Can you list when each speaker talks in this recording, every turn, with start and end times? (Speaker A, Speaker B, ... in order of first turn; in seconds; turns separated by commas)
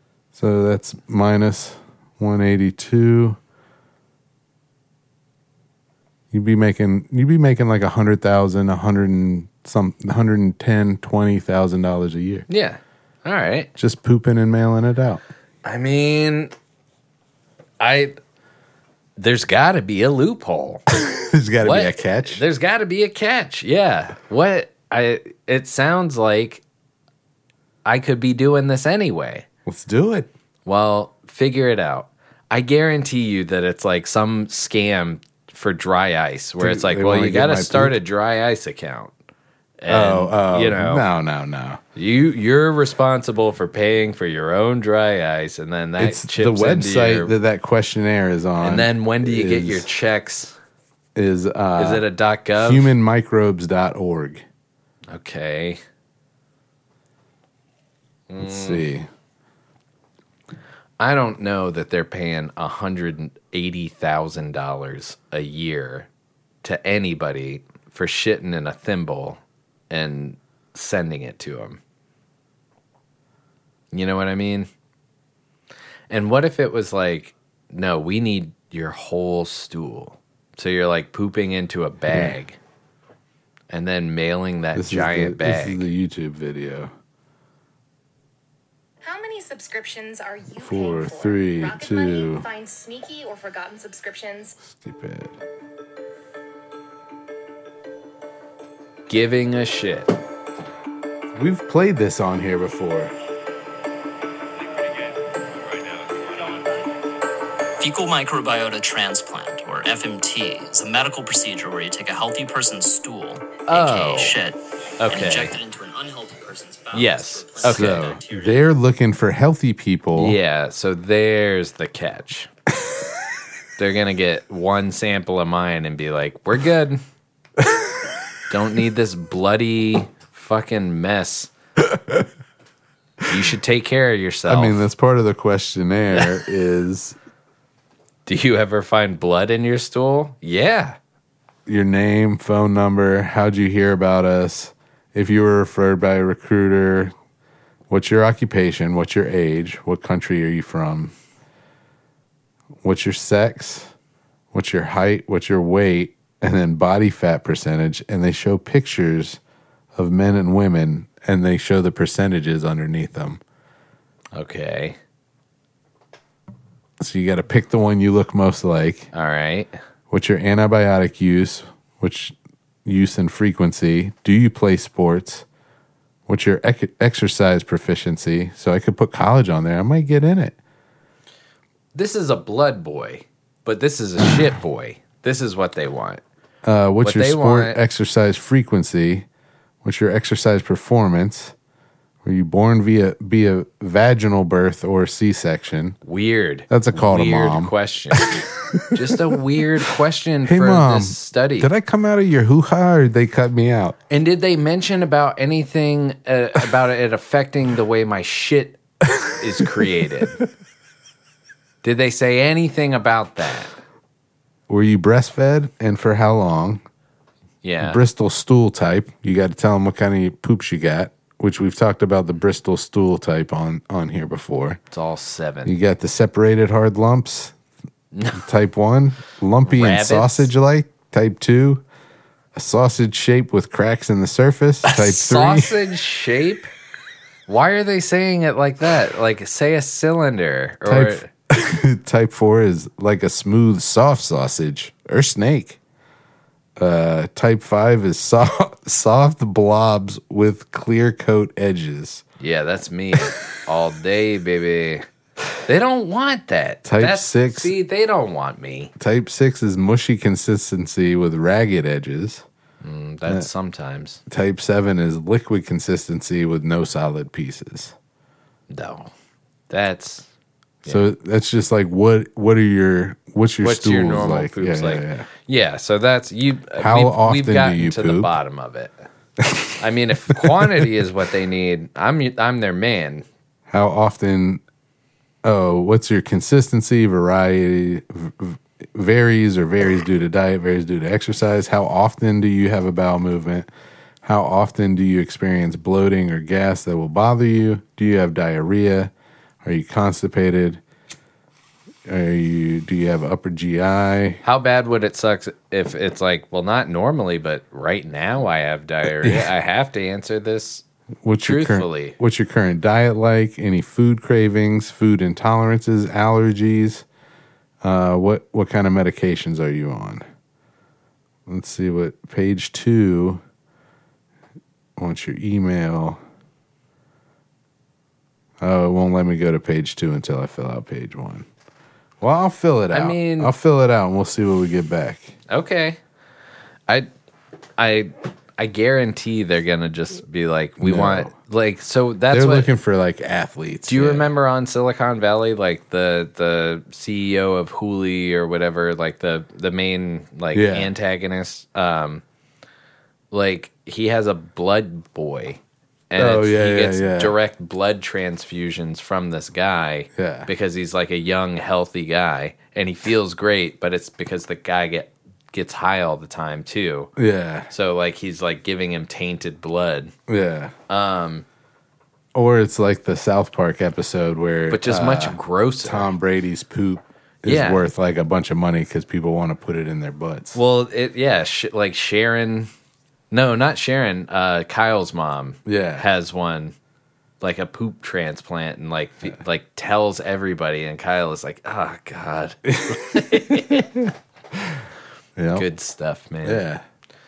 Speaker A: 0.3-3.4, Speaker A: 6.3-12.4, Speaker B: 12.5-13.7, Speaker A: 13.8-15.2, Speaker B: 15.6-16.5, Speaker B: 17.8-18.2, Speaker B: 19.2-20.8, Speaker A: 20.9-22.4, Speaker B: 21.6-26.6, Speaker B: 27.8-29.4, Speaker A: 29.6-30.3, Speaker B: 30.6-39.1, Speaker A: 36.6-38.0, Speaker B: 39.8-41.0, Speaker A: 39.9-41.8, Speaker B: 42.0-47.3, Speaker A: 46.0-49.9, Speaker B: 48.6-50.5, Speaker A: 51.1-54.4, Speaker B: 51.8-52.9, Speaker B: 55.1-55.8, Speaker B: 58.3-58.8, Speaker A: 58.4-59.1, Speaker B: 61.0-66.1, Speaker B: 66.6-71.8, Speaker B: 73.9-74.7, Speaker B: 76.1-82.6, Speaker A: 82.1-82.3, Speaker B: 83.7-85.9, Speaker A: 84.7-86.9, Speaker C: 89.0-94.6, Speaker A: 90.6-92.4, Speaker A: 94.6-95.4, Speaker B: 99.1-100.2, Speaker A: 101.3-103.1, Speaker D: 106.3-106.6, Speaker D: 107.8-118.6, Speaker B: 113.7-114.4, Speaker B: 115.0-115.5, Speaker B: 116.9-118.2, Speaker A: 117.7-120.4, Speaker B: 120.1-122.5, Speaker B: 123.8-127.0, Speaker A: 127.6-128.1, Speaker B: 128.5-131.5, Speaker A: 131.9-132.2, Speaker B: 133.2-134.8, Speaker A: 134.5-137.2, Speaker B: 138.2-141.0, Speaker A: 141.7-147.1, Speaker A: 147.9-151.1, Speaker A: 152.8-153.9, Speaker A: 154.5-159.4, Speaker A: 159.9-163.4, Speaker B: 164.3-165.0, Speaker A: 167.0-169.1, Speaker B: 169.1-169.7, Speaker A: 170.1-175.4, Speaker A: 176.3-180.6, Speaker B: 181.9-186.2, Speaker A: 186.6-189.2, Speaker B: 187.0-187.8, Speaker A: 189.8-191.5, Speaker A: 192.2-196.0, Speaker B: 196.0-201.7, Speaker A: 196.7-199.4, Speaker A: 200.4-203.9, Speaker B: 204.1-210.4, Speaker B: 211.8-213.7, Speaker A: 214.7-216.8, Speaker B: 217.6-218.0, Speaker A: 217.8-224.8, Speaker B: 224.9-225.8, Speaker A: 225.6-227.5, Speaker B: 228.1-228.4, Speaker A: 228.3-231.8, Speaker B: 229.6-230.5, Speaker A: 232.5-235.8, Speaker B: 234.8-236.7, Speaker B: 237.5-241.3, Speaker A: 240.8-245.8, Speaker A: 246.8-252.2, Speaker B: 252.4-255.1, Speaker B: 255.7-258.9, Speaker A: 256.8-257.7, Speaker A: 259.0-262.4, Speaker B: 262.8-264.2, Speaker A: 264.3-267.9, Speaker B: 268.7-269.1, Speaker B: 269.7-270.3, Speaker A: 270.8-275.3, Speaker B: 273.6-279.1, Speaker A: 276.8-278.4, Speaker A: 279.4-279.7, Speaker B: 279.8-283.2, Speaker A: 280.3-280.9, Speaker A: 283.7-284.6, Speaker A: 285.4-293.7, Speaker A: 294.2-299.1, Speaker A: 299.6-300.8, Speaker A: 302.0-304.4, Speaker B: 304.4-310.8, Speaker A: 309.0-309.5, Speaker A: 311.2-317.0, Speaker B: 311.4-312.2, Speaker A: 317.8-320.2, Speaker A: 321.5-323.4, Speaker A: 325.0-326.2, Speaker A: 328.6-331.5, Speaker A: 332.2-335.3, Speaker B: 332.9-333.5, Speaker B: 335.5-336.0, Speaker B: 337.8-342.7, Speaker A: 340.8-341.3, Speaker A: 342.3-344.3, Speaker B: 343.9-352.2, Speaker A: 350.5-350.9, Speaker B: 353.3-367.1, Speaker A: 356.1-357.3, Speaker A: 360.1-360.5, Speaker A: 367.1-367.7, Speaker B: 367.7-370.1, Speaker A: 370.3-370.7, Speaker B: 370.9-371.4, Speaker A: 372.3-380.6, Speaker B: 374.7-376.1, Speaker B: 377.4-377.8, Speaker B: 380.5-382.7, Speaker B: 383.3-386.7, Speaker A: 385.6-386.1, Speaker B: 387.4-393.9, Speaker A: 392.7-394.8, Speaker A: 395.4-395.7, Speaker B: 395.5-396.6, Speaker A: 396.4-396.8